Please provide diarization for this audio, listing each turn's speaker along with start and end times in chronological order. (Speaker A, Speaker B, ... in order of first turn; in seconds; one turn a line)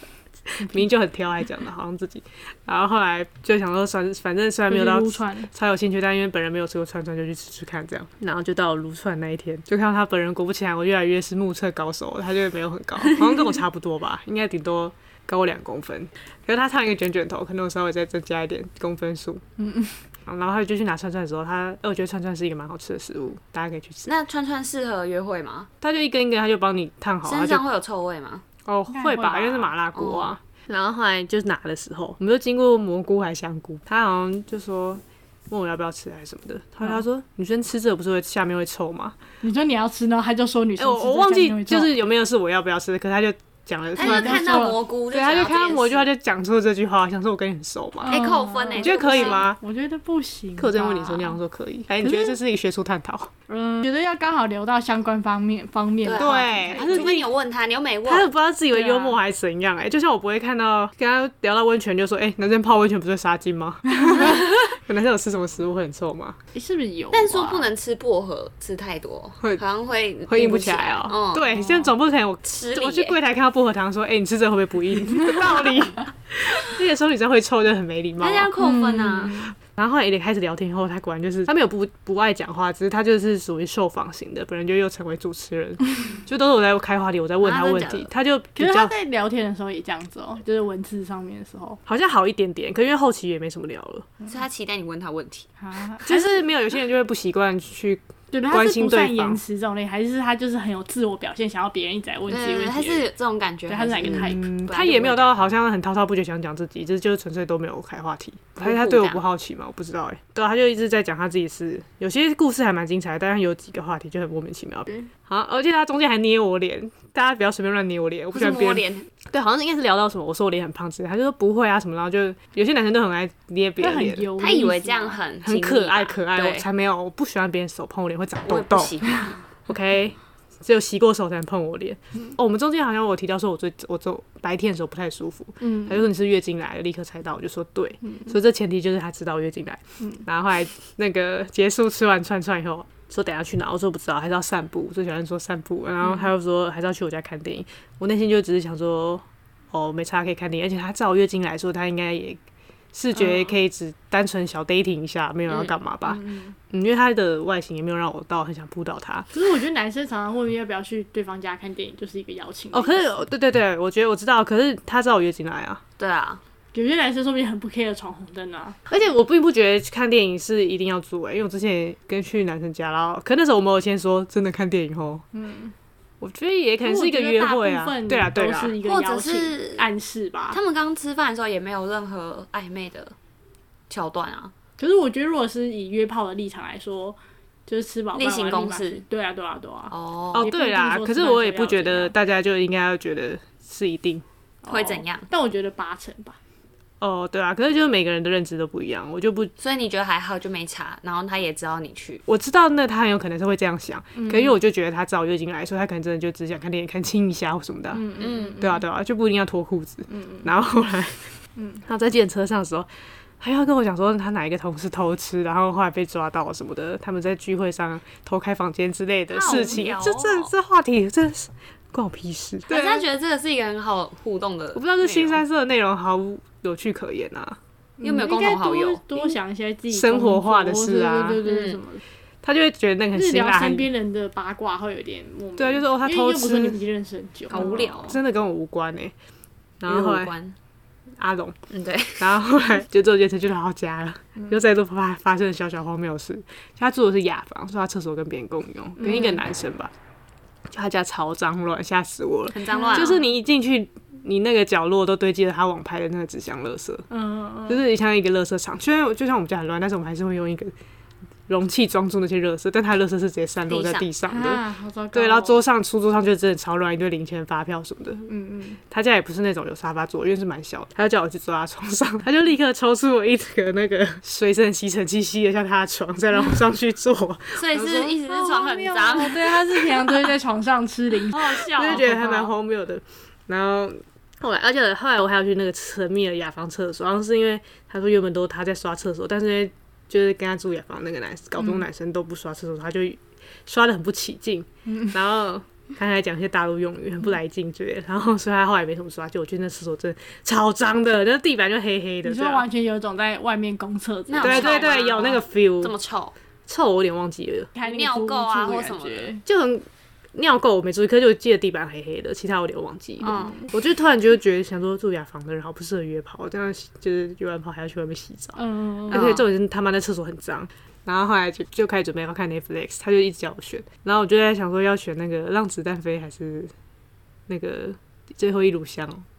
Speaker A: 0.5-19.4
Speaker B: 4.7-5.5
Speaker B: 19.6-20.0
Speaker A: 20.2-24.1
Speaker C: 24.1-25.7
Speaker A: 25.8-27.6
Speaker C: 27.2-28.4
Speaker A: 28.6-39.2
Speaker B: 28.9-29.7
Speaker C: 29.9-30.3
Speaker B: 39.4-41.9
Speaker A: 40.8-48.1
Speaker B: 44.0-44.8
Speaker C: 44.0-46.1
Speaker B: 48.0-51.4
Speaker C: 48.1-49.5
Speaker A: 48.8-49.6
Speaker A: 50.6-53.3
Speaker B: 52.0-52.4
Speaker B: 53.5-57.1
Speaker C: 56.0-58.3
Speaker A: 56.1-57.3
Speaker A: 58.0-66.4
Speaker B: 58.7-59.2
Speaker B: 63.9-64.3
Speaker B: 66.5-67.7
Speaker C: 67.1-71.8
Speaker A: 70.3-78.5
Speaker C: 72.4-73.2
Speaker C: 78.2-79.4
Speaker B: 78.6-79.5
Speaker A: 79.4-88.9
Speaker C: 87.4-88.1
Speaker B: 88.5-91.8
Speaker A: 91.8-94.1
Speaker C: 94.2-95.5
Speaker B: 95.6-96.5
Speaker A: 96.0-99.4
Speaker B: 98.3-103.1
Speaker C: 102.3-105.3
Speaker B: 103.7-104.5
Speaker A: 104.1-124.3
Speaker C: 108.6-109.2
Speaker C: 118.3-119.1
Speaker B: 123.8-125.2
Speaker C: 124.4-126.7
Speaker A: 125.4-152.4
Speaker C: 128.4-129.4
Speaker B: 135.6-136.1
Speaker B: 138.0-138.3
Speaker B: 146.0-146.3
Speaker A: 152.9-159.3
Speaker B: 153.2-153.5
Speaker B: 156.0-156.6
Speaker B: 159.3-163.1
Speaker A: 162.7-165.8
Speaker C: 166.0-166.4
Speaker B: 166.7-168.8
Speaker A: 168.9-175.2
Speaker B: 175.3-175.7
Speaker A: 176.2-178.8
Speaker B: 176.8-180.6
Speaker C: 178.8-179.9
Speaker C: 180.5-183.2
Speaker C: 183.9-184.5
Speaker B: 184.8-192.1
Speaker C: 188.1-189.0
Speaker C: 189.9-190.5
Speaker A: 190.3-194.2
Speaker B: 194.6-196.4
Speaker C: 194.7-195.3
Speaker A: 197.0-199.5
Speaker C: 199.6-202.2
Speaker A: 202.3-208.0
Speaker B: 204.2-204.6
Speaker B: 207.9-208.8
Speaker C: 208.2-208.6
Speaker A: 208.6-211.2
Speaker B: 210.1-210.5
Speaker B: 211.6-211.8
Speaker A: 211.8-212.9
Speaker A: 213.4-223.0
Speaker C: 219.3-220.5
Speaker C: 222.7-225.4
Speaker A: 224.7-227.6
Speaker B: 228.0-232.0
Speaker C: 228.0-229.3
Speaker A: 229.9-231.4
Speaker C: 231.4-231.8
Speaker A: 232.4-233.9
Speaker B: 233.1-237.9
Speaker A: 235.6-236.8
Speaker C: 237.5-238.2
Speaker A: 237.5-239.1
Speaker A: 239.8-240.3
Speaker C: 239.9-240.6
Speaker A: 241.2-241.6
Speaker C: 241.7-242.3
Speaker A: 242.2-249.9
Speaker B: 249.0-249.4
Speaker A: 250.7-257.1
Speaker C: 252.5-253.2
Speaker B: 252.7-253.2
Speaker B: 257.1-257.8
Speaker A: 257.7-260.7
Speaker A: 261.5-264.6
Speaker C: 263.7-264.1
Speaker B: 264.2-265.6
Speaker A: 265.1-268.3
Speaker B: 268.3-268.8
Speaker A: 268.9-278.1
Speaker C: 277.5-279.6
Speaker B: 278.1-282.5
Speaker A: 279.9-280.3
Speaker C: 281.3-282.2
Speaker A: 281.7-302.6
Speaker B: 294.9-295.1
Speaker B: 302.2-305.0
Speaker C: 304.3-306.3
Speaker A: 304.4-305.9
Speaker A: 306.7-307.7
Speaker B: 307.7-309.4
Speaker C: 307.8-309.3
Speaker A: 309.4-326.7
Speaker C: 313.2-313.6
Speaker B: 313.2-313.7
Speaker B: 318.6-319.4
Speaker C: 319.1-319.4
Speaker A: 327.5-329.2